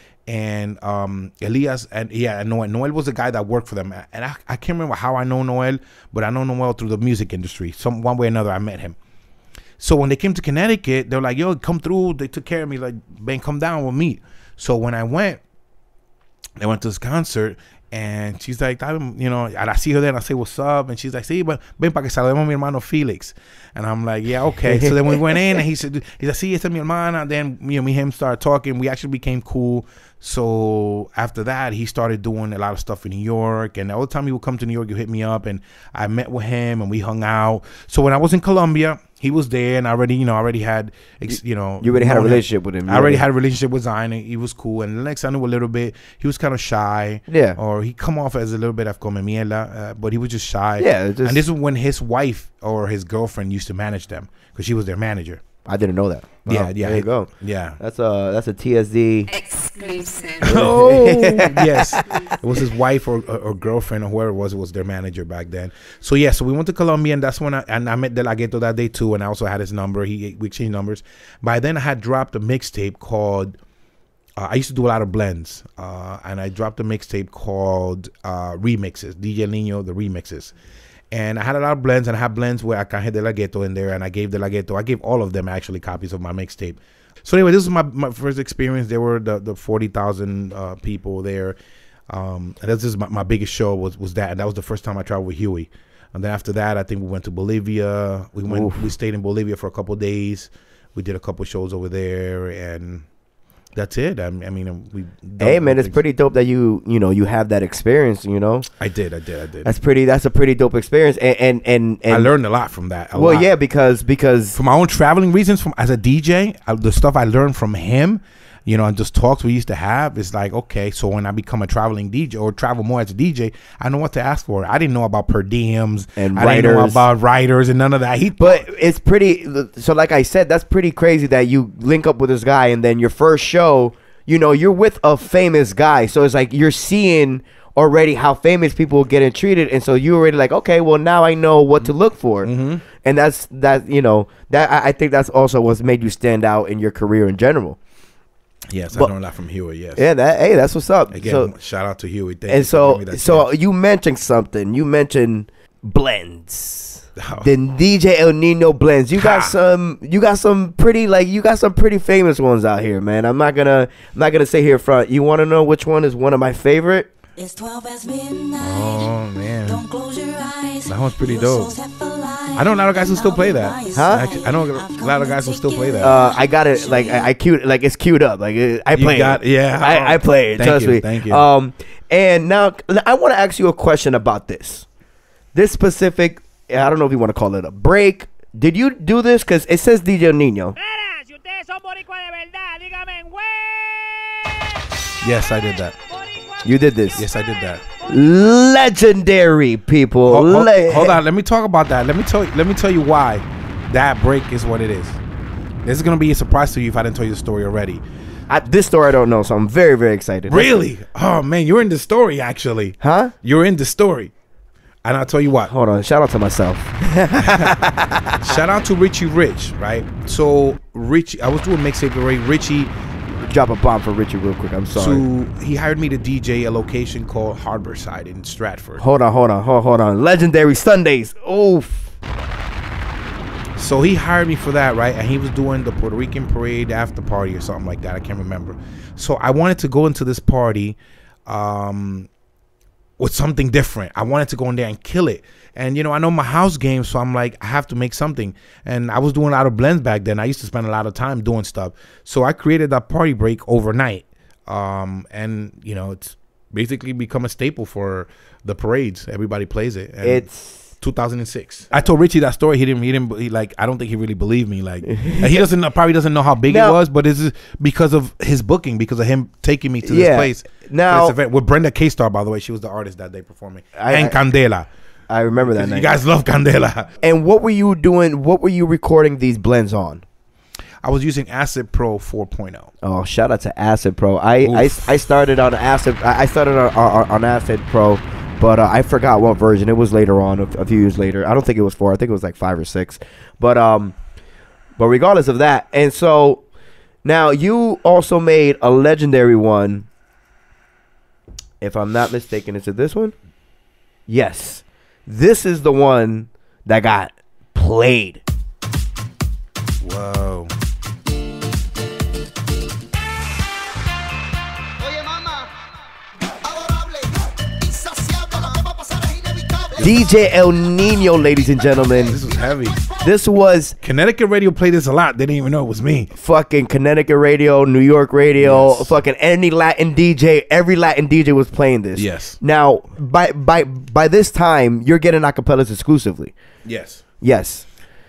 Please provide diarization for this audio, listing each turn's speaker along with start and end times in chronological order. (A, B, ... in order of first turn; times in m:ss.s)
0:00.2-0:09.0 A
0:09.8-0:15.4 A
0:16.6-0:55.4 A
0:41.8-0:43.2 B
0:47.3-0:47.6 B
0:50.8-0:51.4 B
0:55.6-0:57.3 B
0:56.4-0:57.8 A
0:57.8-0:59.3 B
0:59.3-1:01.2 C
1:00.4-1:13.6 A
1:00.4-1:02.0 B
1:14.4-1:20.5 A
1:21.1-1:31.6 A
1:32.1-1:43.0 A
1:38.5-1:38.8 B
1:43.7-1:46.0 A
1:45.4-1:48.7 B
1:48.8-1:49.7 A
1:49.6-1:52.3 B
1:52.1-1:53.5 A
1:53.1-1:54.6 B
1:54.5-2:08.6 A
2:06.2-2:07.0 B
2:08.4-2:27.8 B
2:22.4-2:22.8 A
2:28.7-2:30.1 A
2:30.0-2:31.5 B
2:31.1-2:33.5 A
2:32.5-2:47.1 B
2:37.2-2:37.5 A
2:39.2-2:39.6 A
2:47.4-2:49.1 C
2:48.6-2:49.8 A
2:49.6-2:57.3 C
2:50.8-2:51.7 A
2:52.5-2:56.3 A
2:53.9-2:54.3 B
2:56.0-3:04.8 B
2:58.9-3:01.4 A
3:05.5-3:10.8 B
3:10.8-3:14.4 D
3:15.2-3:16.0 A
3:16.1-3:17.2 D
3:16.6-3:17.2 B
3:17.1-3:17.8 A
3:18.0-3:21.2 B
3:20.2-3:25.2 A
3:25.8-3:28.0 A
3:28.5-3:30.7 B
3:30.5-3:34.3 A
3:33.0-3:33.3 B
3:35.0-3:35.7 A
3:35.7-3:38.5 B
3:37.4-3:37.8 A
3:38.4-3:42.9 A
3:43.3-3:45.2 B
3:44.9-3:49.0 A
3:49.0-3:52.1 B
3:53.8-4:02.3 A
4:03.2-4:20.5 A
4:20.2-4:20.9 B
4:21.0-4:34.9 A
4:25.1-4:25.6 B
4:26.7-4:27.0 B
4:30.0-4:31.3 B
4:34.0-4:34.4 B
4:35.3-4:36.1 B
4:35.6-4:37.1 A
4:37.2-4:40.2 B
4:41.0-4:42.9 A
4:43.0-4:54.1 B
4:44.6-4:45.1 A
4:55.0-4:56.6 B
4:57.2-5:00.1 B
5:01.8-5:03.3 B
5:04.3-5:08.4 B
5:10.0-5:10.7 A
5:20.0-5:20.3 A
5:20.0-5:22.4 B
5:22.2-5:23.0 A
5:23.2-5:24.0 B
5:24.0-5:26.3 A
5:26.3-5:36.5 B
5:28.6-5:29.1 A
5:32.2-5:32.6 A
5:36.8-5:37.2 A
5:37.4-5:37.8 B